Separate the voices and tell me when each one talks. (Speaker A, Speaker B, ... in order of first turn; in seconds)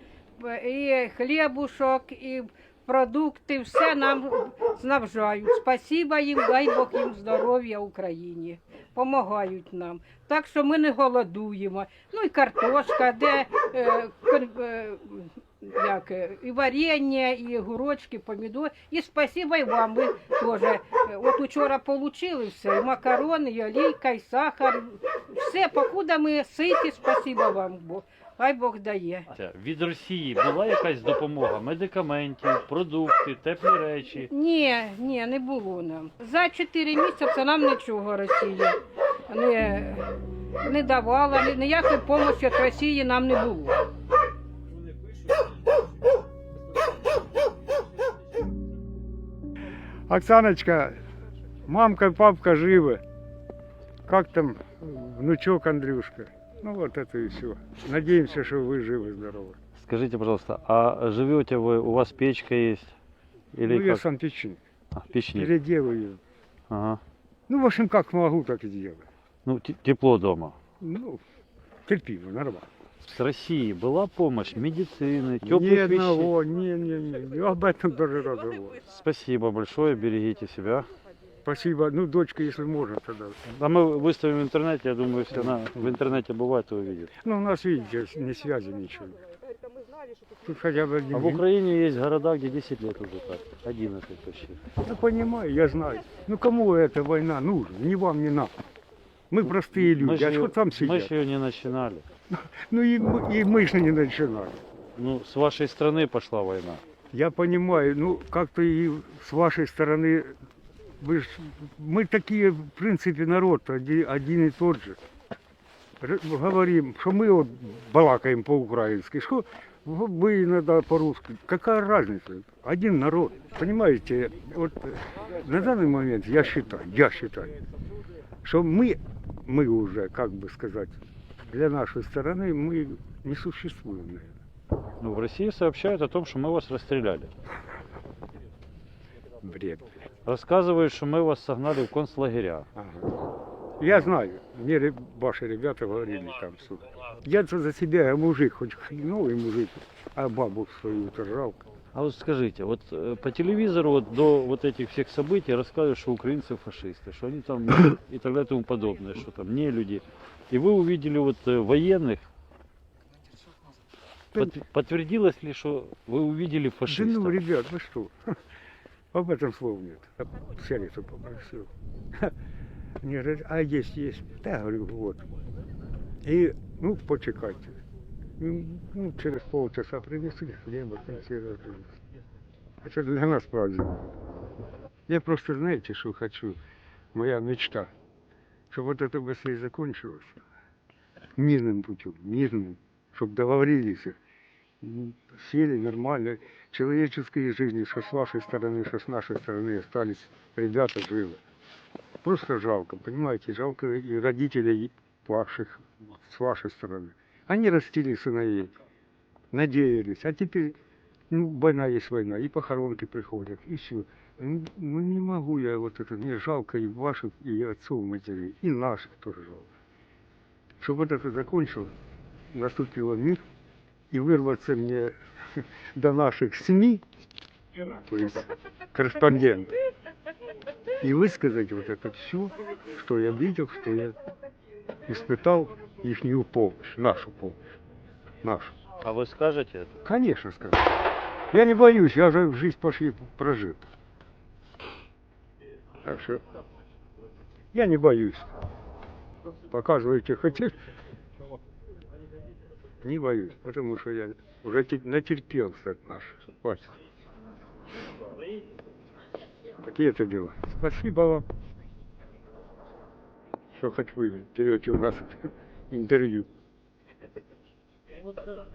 Speaker A: 0.4-29.3, 34.3-38.8, 39.3-40.1, 40.6-43.8
Speaker B: 29.3-34.3, 59.8-62.9, 63.5-64.0, 65.0-65.5, 66.7-67.0, 69.5-70.6, 73.0-76.3, 78.9-80.9, 83.5-87.1, 91.1-94.6, 99.7-102.0, 105.0-106.8, 135.0-137.3, 140.3-142.7, 151.9-162.3, 164.3-167.4, 239.0-239.9
Speaker C: 50.1-51.0, 51.7-53.0, 54.1-59.6, 63.6-64.6, 65.3-66.2, 67.5-69.0, 70.8-71.2, 71.9-72.7, 75.4-78.8, 81.5-83.4, 85.3-86.0, 87.2-89.2, 90.4-91.4, 94.8-98.5, 99.3-101.1, 102.3-104.6, 107.1-110.3, 111.0-115.0, 116.0-127.6, 128.4-131.0, 131.5-134.3, 139.4-140.0, 142.8-143.1, 143.8-151.6, 166.9-168.1, 169.1-172.3, 173.0-175.3, 176.2-177.8, 178.4-181.9, 182.8-184.1, 185.1-186.6, 187.1-187.9, 188.7-190.4, 191.4-194.2, 194.8-201.4, 202.2-208.7, 209.5-210.8, 211.3-219.7, 220.8-221.9, 222.5-223.4, 224.1-227.0, 227.9-229.7, 231.0-234.2, 235.1-237.6, 238.4-238.7, 240.1-240.9, 241.5-243.8, 246.1-246.4, 247.7-248.5, 249.7-250.7, 253.0-256.9, 259.8-261.4, 263.8-266.5